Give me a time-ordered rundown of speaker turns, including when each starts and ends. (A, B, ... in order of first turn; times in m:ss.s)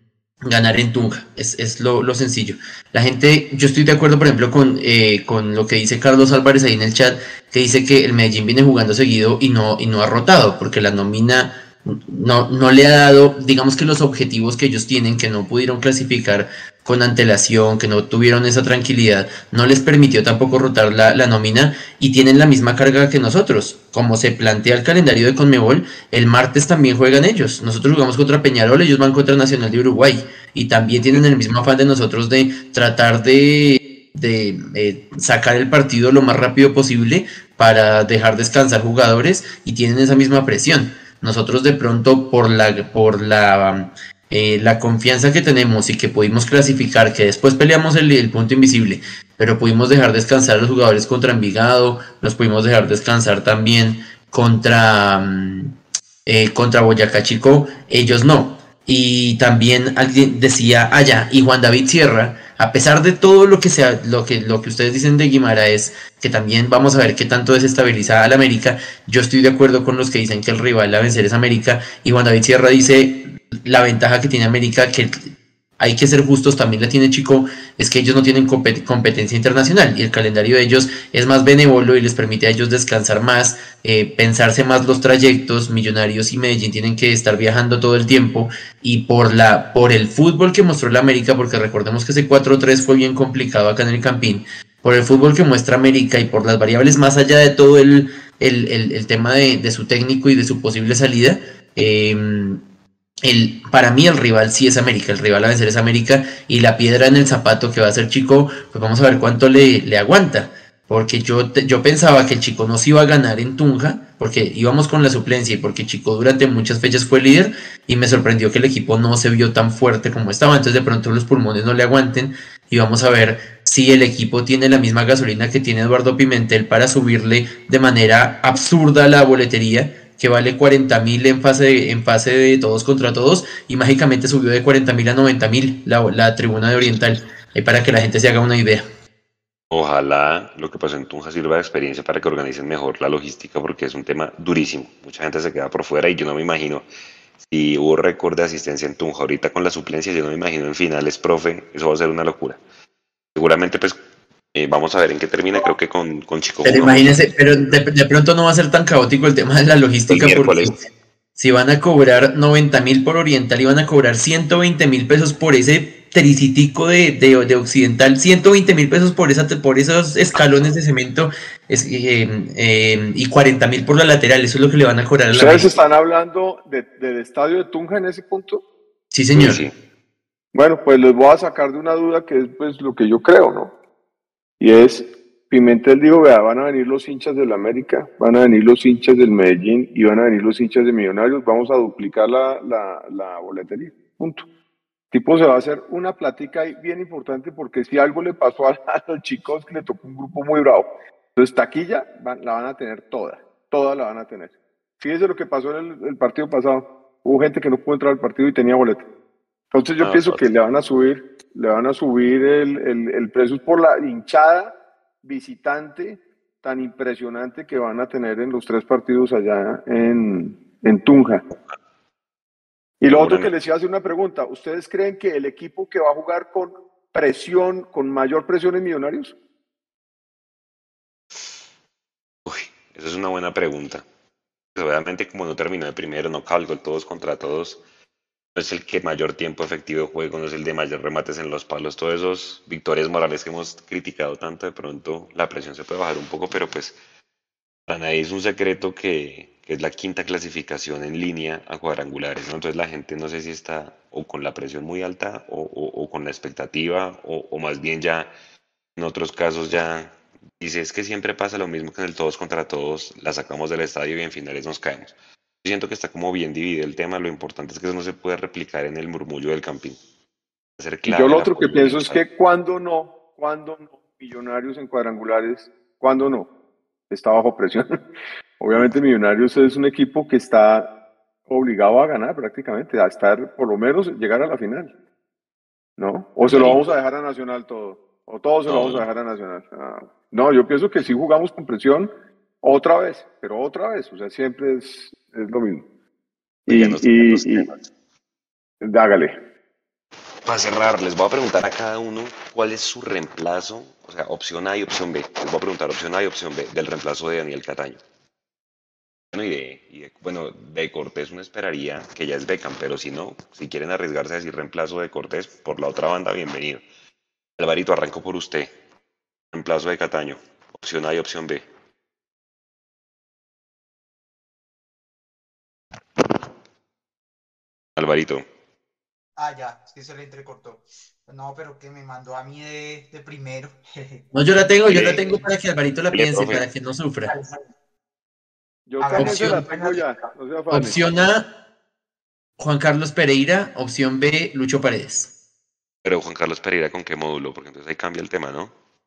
0:00.4-0:55.7 A
0:56.3-1:15.1 A
1:15.8-1:42.6 A
1:43.2-2:18.8 A
2:19.7-2:26.9 B
2:27.4-2:32.6 B
2:33.4-2:34.0 B
2:34.5-2:37.4 B
2:36.6-2:40.8 A
2:40.1-2:40.8 B
2:41.4-2:55.8 A
2:55.3-2:58.6 C
2:59.1-2:59.6 A
2:59.4-2:59.7 B
3:00.5-3:03.7 C
3:04.6-3:14.5 C
3:15.1-3:29.1 C
3:29.7-3:41.4 C
3:30.0-3:30.4 B
3:43.0-3:49.4 C
3:43.1-3:43.5 B
3:52.5-3:54.1 B
3:54.8-3:57.8 B
3:58.6-4:07.0 B
4:07.9-4:18.3 B
4:19.0-4:30.0 B
4:30.8-4:32.2 B
4:31.1-4:36.5 C
4:37.1-4:37.9 C
4:38.6-4:40.9 C
4:41.5-4:44.9 C
4:46.0-4:52.1 C
4:46.5-4:46.9 B
4:48.7-4:49.1 B
4:52.6-4:55.8 C
4:56.7-4:57.7 C
4:56.7-4:57.9 B
4:58.8-4:59.4 C
5:00.5-5:08.0 B
5:09.3-5:16.8 B
5:17.6-5:18.8 B
5:19.5-5:21.7 B
5:28.0-5:28.4 B
5:29.4-5:34.2 D
5:34.3-5:37.4 A
5:34.9-5:35.4 B
5:36.1-5:36.6 B
5:37.3-5:37.6 D
5:38.9-5:41.0 C
5:39.0-5:40.3 D
5:39.2-5:39.6 A
5:40.7-5:41.5 A
5:42.6-5:45.3 A
5:46.0-5:48.7 B